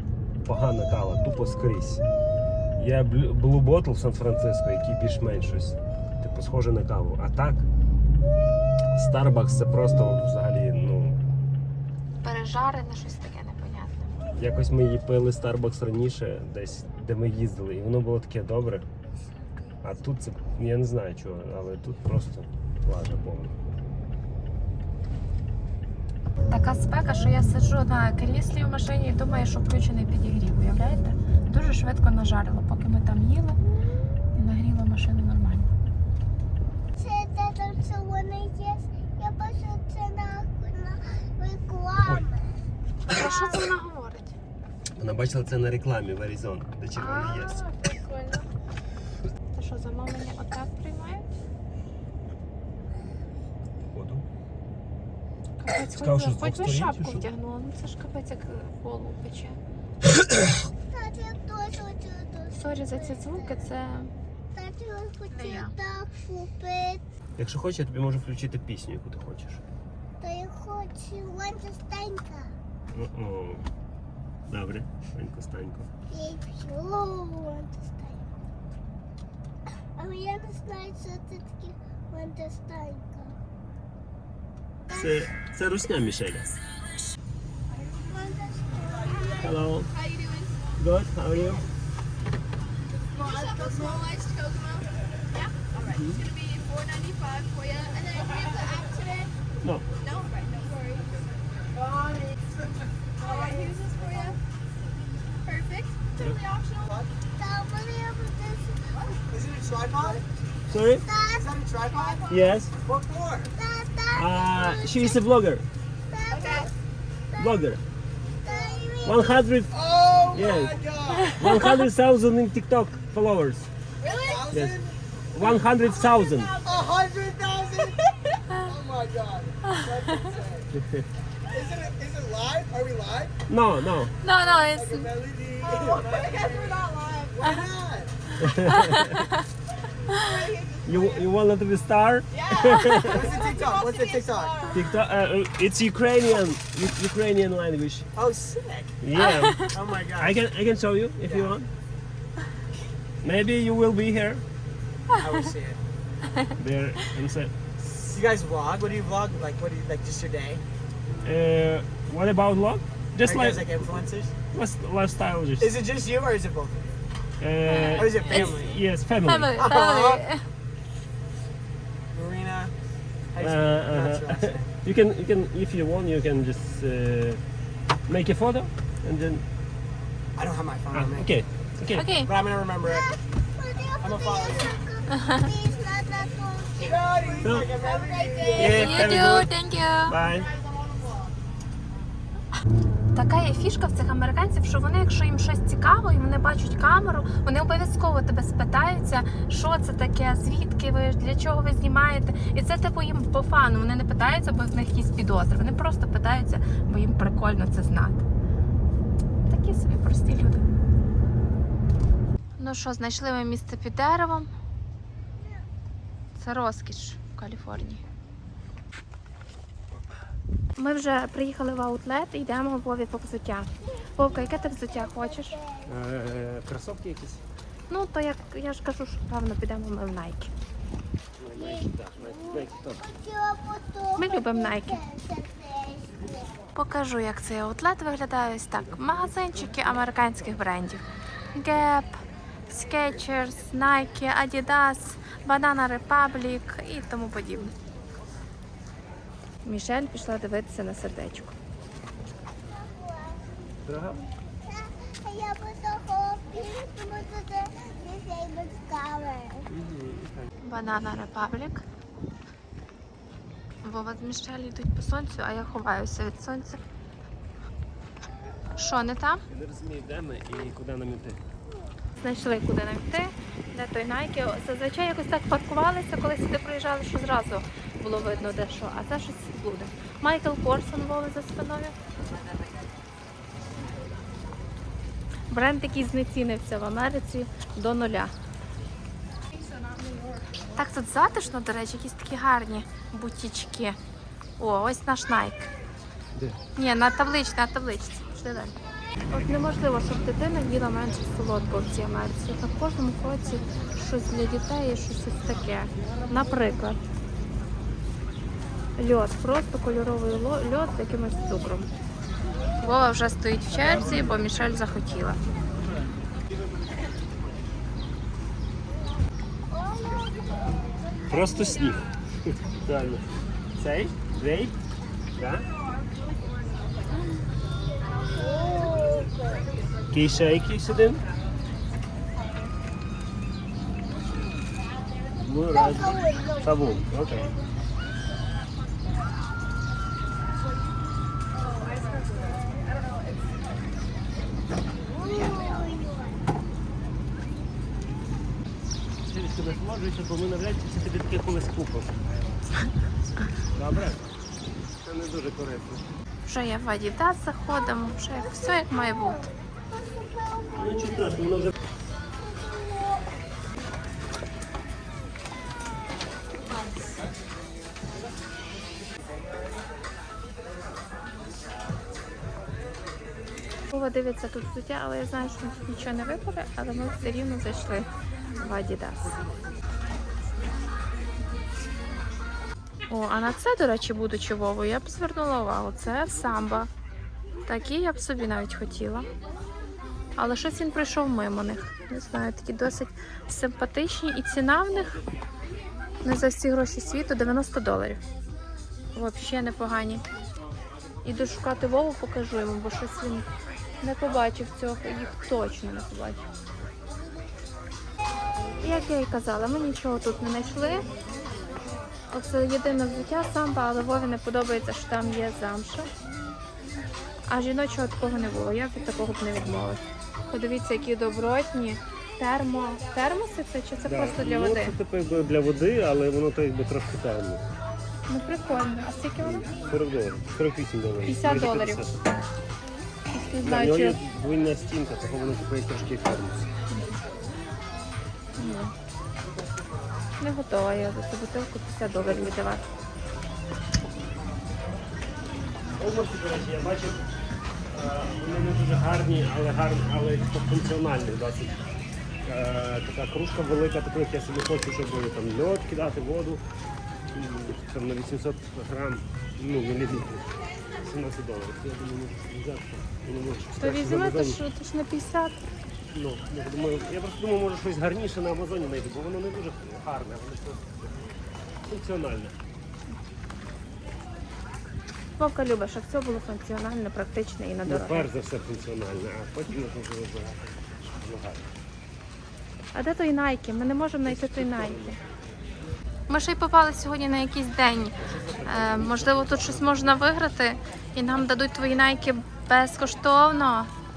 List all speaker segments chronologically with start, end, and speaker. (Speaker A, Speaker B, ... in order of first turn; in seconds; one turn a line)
Speaker A: 0.4-2.0
Speaker A: 2.8-7.7
Speaker A: 8.9-11.2
Speaker B: 12.2-14.1
Speaker A: 14.3-18.9
Speaker A: 19.8-23.6
Speaker B: 26.5-33.6
Speaker B: 34.3-35.7
Speaker C: 37.0-42.5
Speaker B: 43.1-44.3
Speaker A: 44.9-47.6
Speaker B: 47.0-48.5
Speaker B: 49.5-51.3
Speaker A: 53.9-54.2
Speaker B: 55.6-59.6
Speaker A: 55.9-57.3
Speaker A: 60.2-60.5
Speaker C: 60.9-63.7
Speaker B: 62.5-64.1
Speaker C: 64.5-67.0
Speaker B: 65.3-65.7
Speaker A: 67.3-69.6
Speaker C: 70.2-72.5
Speaker A: 72.9-73.7
Speaker A: 74.5-75.9
Speaker C: 76.1-78.2
Speaker C: 80.0-83.4
Speaker C: 84.9-85.2
Speaker A: 84.9-86.5
Speaker D: 87.9-88.4
Speaker C: 88.6-89.5
Speaker D: 89.1-90.7
Speaker A: 89.4-89.9
Speaker A: 90.8-91.6
Speaker D: 93.0-99.3
Speaker E: 93.1-93.9
Speaker A: 95.9-96.2
Speaker D: 100.0-101.3
Speaker D: 103.2-104.4
Speaker D: 105.5-107.0
Speaker E: 106.8-107.1
Speaker C: 107.3-108.9
Speaker D: 108.9-109.2
Speaker E: 109.3-110.2
Speaker A: 110.7-111.0
Speaker C: 110.8-112.2
Speaker E: 111.3-113.5
Speaker D: 111.9-112.4
Speaker A: 112.3-112.7
Speaker C: 113.5-115.2
Speaker A: 114.1-115.7
Speaker C: 116.1-116.7
Speaker D: 116.3-116.7
Speaker A: 117.4-117.8
Speaker C: 118.4-119.4
Speaker A: 119.0-119.7
Speaker E: 119.7-121.7
Speaker A: 120.3-120.8
Speaker A: 121.4-123.7
Speaker B: 121.4-121.7
Speaker D: 124.0-124.5
Speaker E: 124.0-125.0
Speaker A: 124.5-124.8
Speaker A: 125.3-126.5
Speaker D: 125.6-126.8
Speaker E: 126.6-130.7
Speaker A: 130.7-131.1
Speaker E: 131.5-133.3
Speaker A: 133.5-134.1
Speaker B: 134.2-135.1
Speaker E: 134.4-138.1
Speaker D: 135.6-137.6
Speaker A: 138.4-139.2
Speaker B: 138.7-139.4
Speaker D: 140.1-141.2
Speaker A: 140.8-143.3
Speaker D: 142.3-144.8
Speaker E: 143.0-144.8
Speaker A: 144.7-148.1
Speaker E: 148.1-149.0
Speaker A: 149.0-151.7
Speaker B: 149.2-149.7
Speaker E: 149.6-150.3
Speaker E: 151.2-151.5
Speaker A: 153.2-154.4
Speaker E: 155.2-155.8
Speaker A: 156.6-157.9
Speaker E: 157.9-160.6
Speaker A: 161.2-165.8
Speaker E: 163.2-164.3
Speaker E: 165.6-167.0
Speaker A: 167.4-169.6
Speaker B: 167.7-168.6
Speaker E: 167.8-168.7
Speaker B: 169.2-170.4
Speaker E: 169.6-170.2
Speaker E: 172.1-172.7
Speaker E: 173.3-174.7
Speaker A: 173.4-177.4
Speaker A: 178.1-179.4
Speaker E: 180.3-181.3
Speaker A: 180.9-182.1
Speaker B: 181.9-182.3
Speaker E: 182.2-183.1
Speaker C: 182.8-189.2
Speaker E: 184.0-184.8
Speaker B: 185.2-185.4
Speaker E: 186.8-189.1
Speaker A: 187.4-187.7
Speaker A: 188.5-189.5
Speaker B: 188.6-190.2
Speaker A: 190.1-190.5
Speaker E: 190.4-191.3
Speaker B: 193.1-208.2
Speaker B: 209.4-210.6
Speaker B: 212.6-214.5
Speaker B: 216.3-218.0
Speaker B: 220.8-225.6
Speaker C: 223.9-225.9
Speaker A: 225.8-227.4
Speaker B: 227.9-230.5
Speaker A: 231.4-233.0
Speaker C: 231.6-236.6
Speaker B: 234.2-235.0
Speaker B: 236.7-241.0
Speaker B: 241.5-247.7
Speaker B: 249.6-251.6
Speaker C: 252.7-253.7
Speaker A: 253.8-254.3
Speaker C: 254.6-259.7
Speaker A: 259.6-260.5
Speaker B: 260.6-261.8
Speaker B: 263.8-266.8
Speaker B: 268.8-269.4
Speaker A: 269.5-271.4
Speaker B: 272.2-281.9
Speaker B: 285.5-288.3
Speaker D: 289.5-290.5
Speaker B: 290.7-294.0
Speaker B: 294.6-295.7
Speaker A: 296.3-296.6
Speaker B: 296.8-298.8
Speaker B: 299.3-307.0
Speaker B: 309.0-311.9
Speaker B: 312.8-315.4
Speaker C: 319.7-321.3
Speaker A: 321.3-323.2
Speaker A: 323.8-324.8
Speaker A: 325.4-325.7
Speaker D: 326.1-327.1
Speaker C: 328.2-329.7
Speaker D: 328.4-329.1
Speaker A: 330.1-331.2
Speaker A: 335.4-337.5
Speaker C: 335.7-337.6
Speaker D: 341.7-342.8
Speaker C: 345.0-346.4
Speaker A: 349.2-352.4
Speaker A: 353.7-354.3
Speaker A: 354.9-356.1
Speaker B: 356.4-359.4
Speaker C: 358.3-361.4
Speaker A: 360.7-361.7
Speaker C: 362.3-363.3
Speaker B: 373.9-379.4
Speaker B: 383.1-386.9
Speaker B: 387.7-389.3
Speaker B: 390.4-395.2
Speaker B: 396.2-398.2
Speaker B: 399.1-400.2
Speaker B: 401.2-403.5
Speaker B: 404.0-406.4
Speaker B: 408.8-411.0
Speaker B: 412.3-416.1
Speaker B: 417.5-424.9
Speaker A: 424.1-427.6
Speaker B: 428.3-429.7
Speaker A: 429.4-432.4
Speaker B: 431.2-432.0
Speaker B: 433.3-434.2
Speaker A: 433.6-436.7
Speaker B: 436.9-437.2
Speaker B: 438.6-438.9
Speaker B: 440.4-442.9
Speaker A: 442.1-442.5
Speaker A: 445.9-447.3
Speaker A: 447.9-451.8
Speaker A: 452.4-456.6
Speaker A: 457.3-464.6
Speaker B: 463.8-465.6
Speaker A: 466.1-472.6
Speaker B: 475.4-478.3
Speaker A: 477.9-481.7
Speaker B: 482.9-485.2
Speaker A: 484.2-485.2
Speaker B: 486.3-493.9
Speaker A: 488.2-490.2